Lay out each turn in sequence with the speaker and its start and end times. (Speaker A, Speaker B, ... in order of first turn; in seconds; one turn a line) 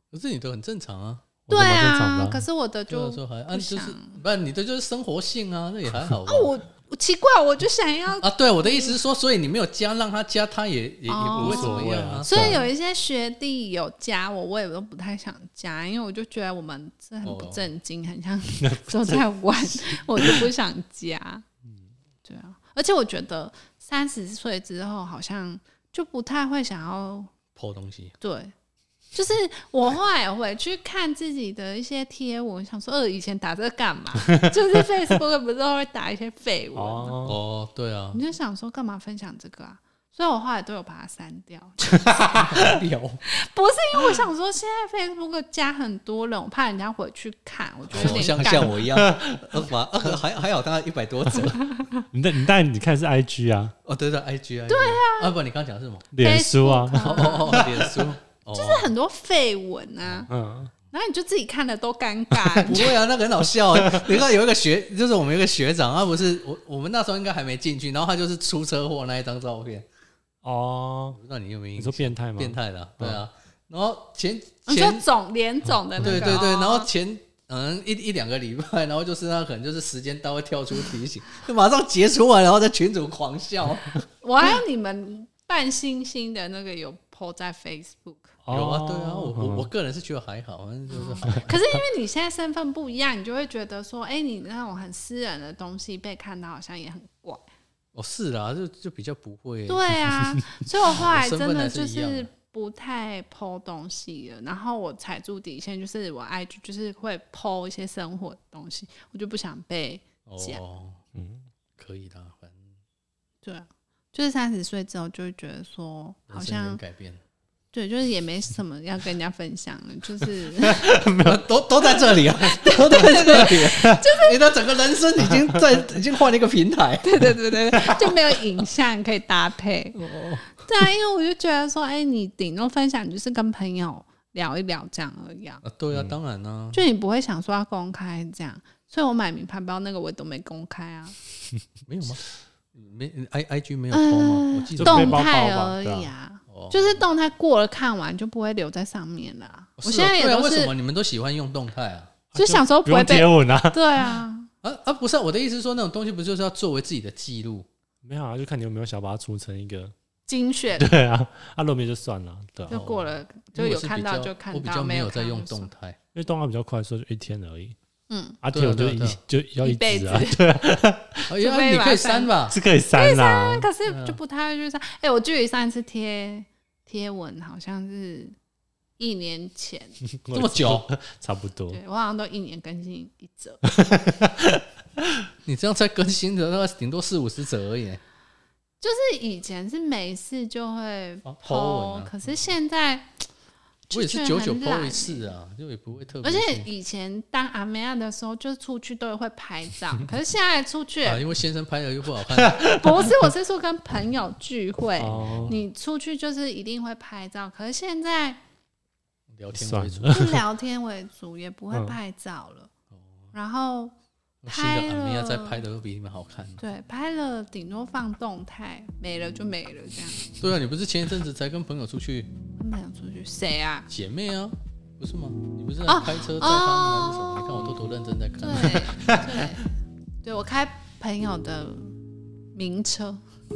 Speaker A: 0.1-1.2
Speaker B: 1.5-2.4
Speaker C: 1.5-4.2
Speaker A: 2.9-6.5
Speaker C: 6.3-9.0
Speaker A: 8.2-12.6
Speaker C: 11.1-21.4
Speaker B: 11.4-12.7
Speaker A: 17.2-17.6
Speaker B: 18.6-20.5
Speaker C: 22.2-27.3
Speaker A: 27.6-28.1
Speaker C: 28.2-28.5
Speaker C: 29.1-37.2
Speaker B: 34.1-34.9
Speaker B: 36.8-37.4
Speaker A: 37.2-38.2
Speaker C: 38.1-42.6
Speaker A: 42.3-43.2
Speaker C: 43.3-48.8
Speaker B: 47.9-49.7
Speaker A: 47.9-51.7
Speaker C: 51.8-52.0
Speaker B: 52.1-53.7
Speaker A: 53.9-56.1
Speaker C: 54.7-55.3
Speaker B: 56.1-57.7
Speaker C: 56.2-57.8
Speaker A: 57.1-58.9
Speaker C: 58.5-60.3
Speaker B: 60.3-60.7
Speaker C: 60.9-63.0
Speaker A: 62.6-69.9
Speaker B: 63.8-64.2
Speaker B: 70.4-71.2
Speaker A: 71.1-75.1
Speaker B: 71.8-73.2
Speaker C: 74.7-76.9
Speaker B: 76.0-76.4
Speaker A: 76.0-84.0
Speaker C: 84.2-88.4
Speaker B: 88.5-89.7
Speaker A: 88.5-91.8
Speaker C: 90.9-97.5
Speaker A: 98.0-100.0
Speaker C: 99.7-110.6
Speaker A: 100.9-102.3
Speaker A: 110.3-111.0
Speaker B: 111.2-111.5
Speaker A: 111.8-112.7
Speaker C: 113.4-116.8
Speaker A: 116.3-117.2
Speaker C: 117.7-121.0
Speaker B: 120.6-121.4
Speaker A: 121.1-127.3
Speaker C: 122.4-124.5
Speaker C: 127.0-135.6
Speaker A: 130.0-130.5
Speaker A: 135.6-136.8
Speaker C: 136.7-141.2
Speaker A: 141.9-145.2
Speaker C: 143.9-150.7
Speaker B: 144.8-146.1
Speaker A: 146.5-147.0
Speaker A: 149.8-152.1
Speaker B: 152.3-154.2
Speaker C: 152.3-154.5
Speaker A: 154.6-157.7
Speaker B: 158.0-159.9
Speaker C: 160.3-160.9
Speaker B: 160.8-162.8
Speaker C: 162.7-165.7
Speaker A: 162.7-166.0
Speaker B: 166.1-167.8
Speaker C: 168.1-168.4
Speaker B: 168.4-171.3
Speaker A: 168.5-169.2
Speaker C: 169.6-172.3
Speaker A: 171.3-172.6
Speaker B: 172.5-173.7
Speaker C: 172.9-178.4
Speaker A: 173.9-174.2
Speaker C: 179.0-180.0
Speaker B: 180.2-181.8
Speaker A: 180.3-180.9
Speaker C: 181.7-183.7
Speaker B: 183.7-185.3
Speaker A: 185.5-188.0
Speaker C: 188.8-193.2
Speaker A: 191.3-192.1
Speaker C: 193.9-195.3
Speaker A: 193.9-196.7
Speaker C: 196.2-201.2
Speaker A: 201.0-202.8
Speaker B: 202.4-203.1
Speaker C: 202.6-208.4
Speaker B: 205.0-205.6
Speaker A: 205.1-205.6
Speaker A: 209.3-210.4
Speaker B: 209.5-210.4
Speaker C: 210.1-212.7
Speaker B: 211.7-212.0
Speaker A: 212.9-213.3
Speaker C: 213.3-213.9
Speaker A: 214.4-216.6
Speaker C: 214.5-215.6
Speaker C: 216.6-220.2
Speaker A: 220.4-222.3
Speaker C: 222.6-223.9
Speaker A: 223.9-229.1
Speaker C: 225.9-227.6
Speaker C: 228.4-232.0
Speaker B: 228.9-229.4
Speaker C: 232.5-233.2